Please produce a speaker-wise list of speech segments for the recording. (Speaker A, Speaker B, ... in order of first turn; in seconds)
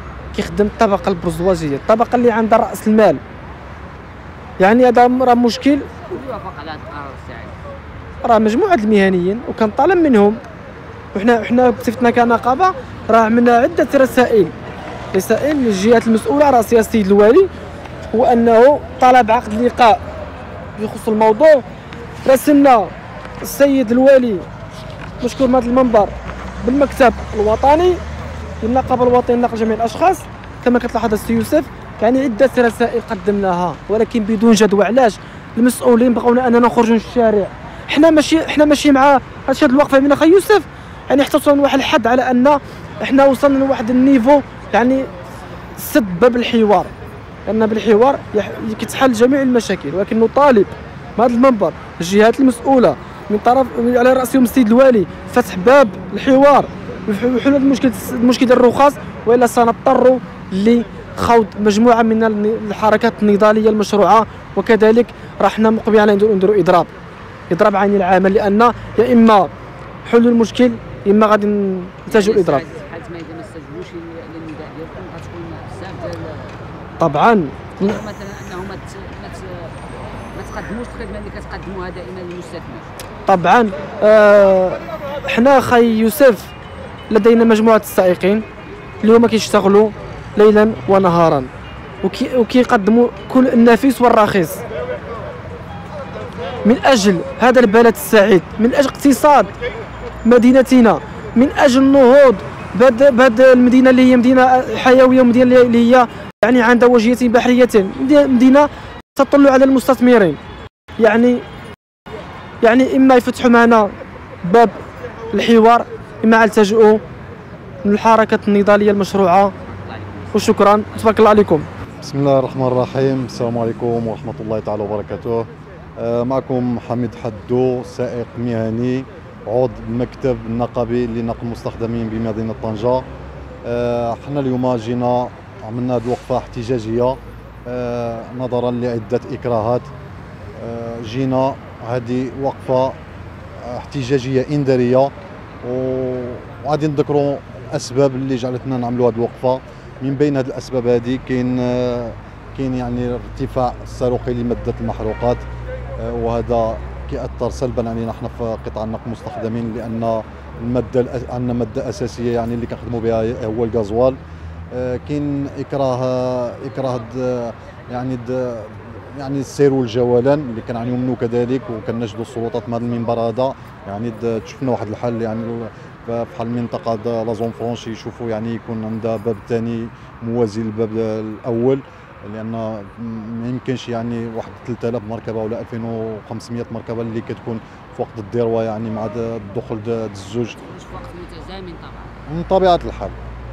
Speaker A: 0.3-3.2, 4.6-5.9, 8.2-10.4, 11.1-14.5, 15.1-17.5, 18.1-20.0, 20.8-21.6, 22.2-22.9, 23.4-24.4, 25.2-28.0, 28.6-45.1, 45.8-46.9, 47.5-66.9, 67.5-69.5, 70.0-72.6, 77.0-78.0, 83.2-86.5, 87.1-88.4, 89.0-91.5, 92.0-94.6, 96.6-99.5, 100.2-110.4, 111.0-111.4, 112.6-113.9, 114.4-114.8, 115.3-117.0, 117.8-119.5, 120.3-121.6
Speaker B: 6.1-7.5, 72.1-76.6, 77.8-82.9, 119.6-121.2, 190.6-192.2
Speaker C: 122.0-133.0, 133.6-139.9, 140.6-143.0, 143.6-145.1, 145.6-155.4, 156.0-164.2, 164.7-190.6, 192.3-193.2